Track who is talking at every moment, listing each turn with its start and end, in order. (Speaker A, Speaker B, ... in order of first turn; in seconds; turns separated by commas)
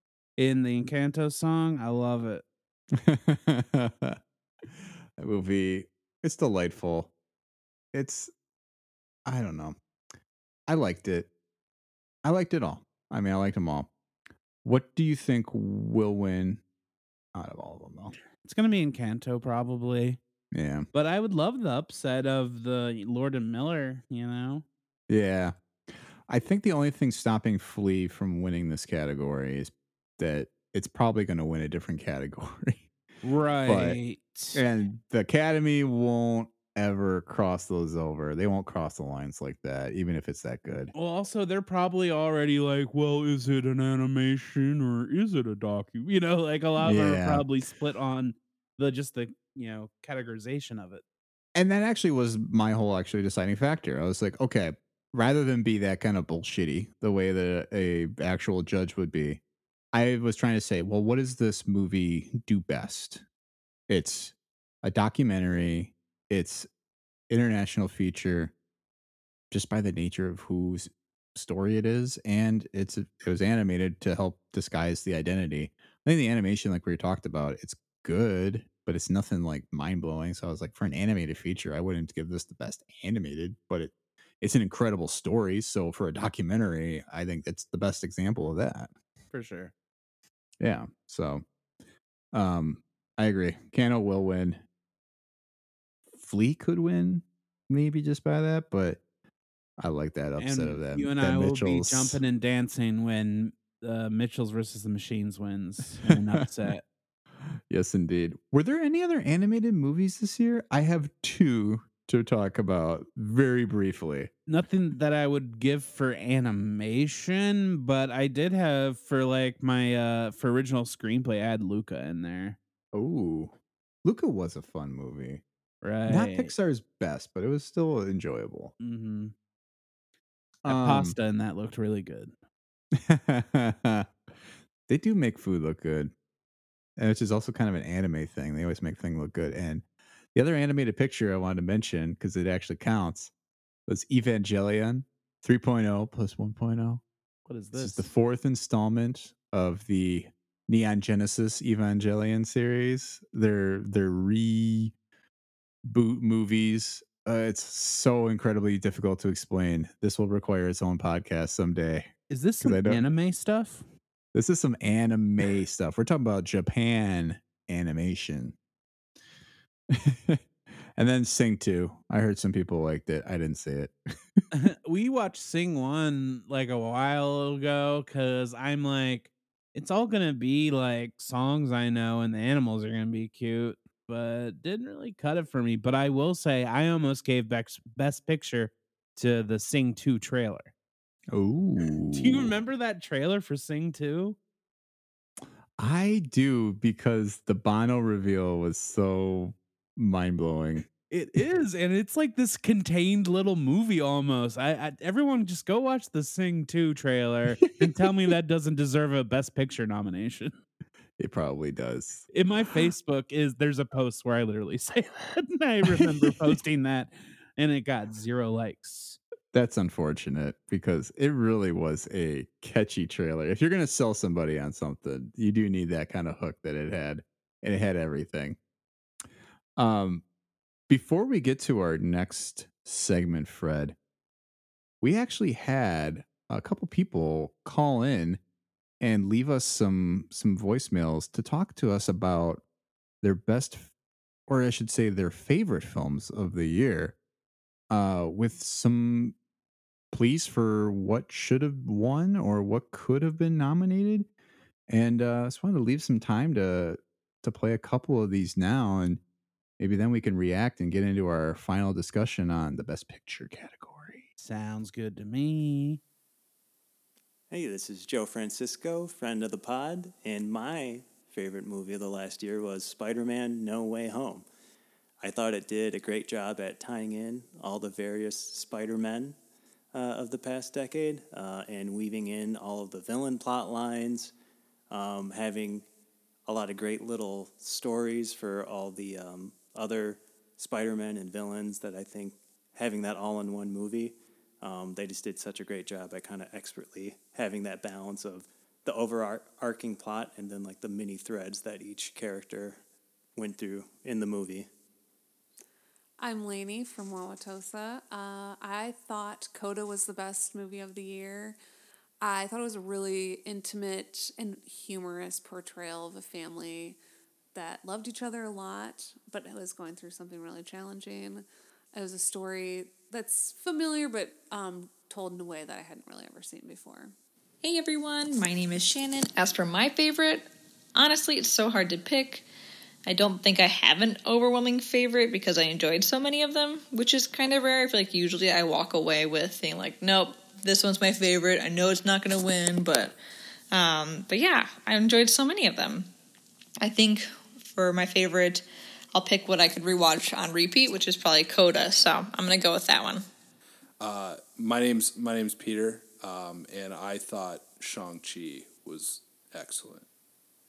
Speaker A: 0.4-2.4, Speaker B: 2.9-4.2, Speaker B: 5.2-7.1, Speaker B: 7.9-8.3, Speaker B: 9.3-9.8, Speaker B: 10.7-11.3, Speaker B: 12.2-13.9, Speaker B: 14.6-16.6, Speaker B: 17.3-18.1, Speaker A: 18.4-20.2, Speaker B: 20.5-20.9, Speaker A: 20.9-24.6, Speaker B: 25.1-32.9, Speaker A: 33.2-34.6, Speaker B: 33.7-34.0, Speaker B: 34.5-40.9, Speaker A: 40.9-51.0, Speaker B: 46.8-47.5, Speaker B: 51.5-59.4, Speaker B: 59.9-63.2, Speaker B: 63.9-66.7, Speaker B: 67.3-68.5, Speaker B: 69.5-88.9, Speaker A: 89.3-89.7, Speaker B: 90.6-91.4, Speaker B: 92.3-94.6, Speaker B: 96.2-99.0, Speaker B: 99.8-102.2, Speaker A: 100.4-106.8, Speaker B: 106.1-106.7, Speaker B: 107.6-114.3, Speaker A: 114.5-122.6, Speaker B: 122.9-125.4, Speaker A: 125.8-126.5, Speaker B: 126.1-128.7, Speaker A: 128.8-129.3, Speaker B: 130.6-131.2, Speaker A: 130.7-132.3, Speaker B: 132.9-134.1, Speaker B: 134.9-136.1, Speaker B: 137.0-139.8, Speaker B: 140.3-143.3, Speaker B: 143.9-147.0, Speaker A: 147.5-148.1, Speaker B: 147.8-154.9, Speaker B: 155.8-162.1, Speaker A: 162.3-163.9, Speaker B: 162.6-163.0, Speaker B: 164.3-168.6, Speaker B: 169.9-174.1, Speaker A: 174.5-190.7, Speaker B: 191.3-192.5, Speaker A: 192.1-194.4, Speaker B: 195.8-200.9, Speaker A: 201.1-210.5, Speaker B: 207.6-208.0, Speaker B: 211.2-212.3, Speaker A: 212.3-219.2, Speaker B: 215.9-216.5, Speaker B: 219.5-228.6, Speaker B: 229.8-230.2, Speaker B: 230.9-234.0, Speaker B: 235.0-238.4, Speaker B: 239.0-242.6, Speaker B: 243.2-243.9, Speaker B: 244.5-247.2, Speaker B: 247.9-249.3, Speaker B: 250.1-254.3, Speaker B: 254.9-259.2, Speaker B: 259.8-264.3, Speaker A: 264.4-266.0, Speaker C: 267.5-274.5, Speaker C: 275.2-279.4, Speaker C: 279.9-284.3, Speaker C: 284.9-285.9, Speaker C: 286.5-302.8, Speaker C: 303.4-304.7, Speaker D: 306.2-311.6, Speaker D: 312.2-317.0, Speaker D: 317.5-327.1, Speaker E: 327.6-332.4, Speaker E: 333.1-343.2, Speaker E: 343.7-346.1, Speaker E: 346.8-348.6, Speaker E: 349.1-353.2, Speaker F: 354.0-360.1